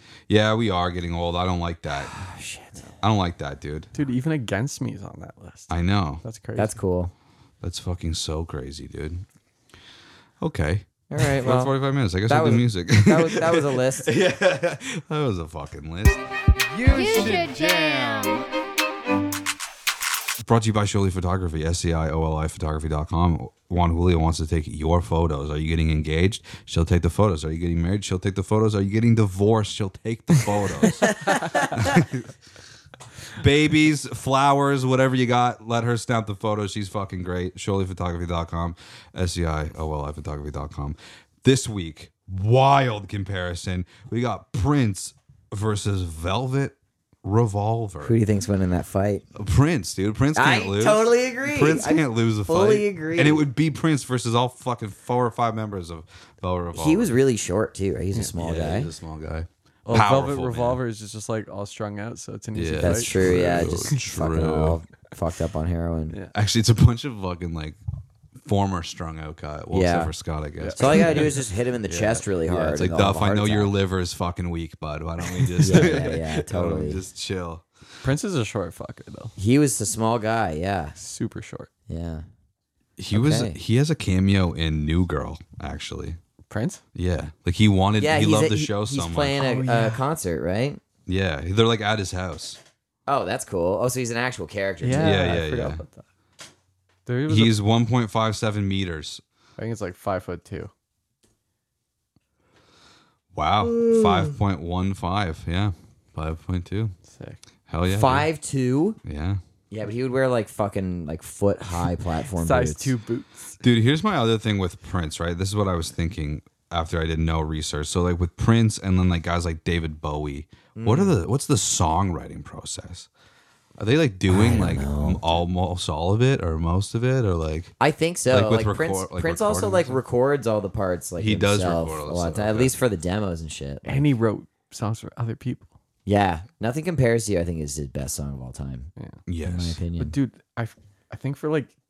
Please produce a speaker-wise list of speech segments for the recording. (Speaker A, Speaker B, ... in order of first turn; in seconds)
Speaker A: 0.3-2.2, 3.0-3.9, 5.7-6.2, 7.6-9.2, 10.4-18.5, 20.4-32.3, 33.3-48.2, 49.4-57.1, 58.4-60.8, 62.5-64.8, 66.3-67.8, 68.4-77.7, 83.0-86.2, 87.0-89.4, 91.1-92.6, 95.0-95.8, 97.3-99.2, 103.3-106.9, 107.7-108.3, 109.0-109.4, 113.6-123.1, 123.8-127.7, 128.3-130.0, 131.2-132.8, 139.3-139.8
Speaker B: 2.1-2.8, 6.6-7.1, 11.1-11.7, 12.2-14.1, 31.3-31.7, 48.0-49.2, 50.4-53.4, 56.7-58.9, 62.8-66.2, 69.7-70.1, 70.8-73.7, 75.6-77.0, 79.4-81.0, 81.9-82.2, 83.1-83.6, 88.0-90.8, 93.1-95.3, 107.9-109.0, 109.7-112.9, 120.8-121.2, 124.3-125.2, 127.8-134.0, 136.1-138.9, 139.4-140.1
Speaker C: 3.9-6.8, 59.9-64.0, 70.6-71.4, 75.4-76.0, 78.0-79.3, 81.0-81.7, 86.5-86.8, 89.4-90.0, 94.8-96.0, 97.1-97.6, 99.6-100.7, 107.1-107.4, 112.4-113.6, 133.8-135.7, 140.0-141.7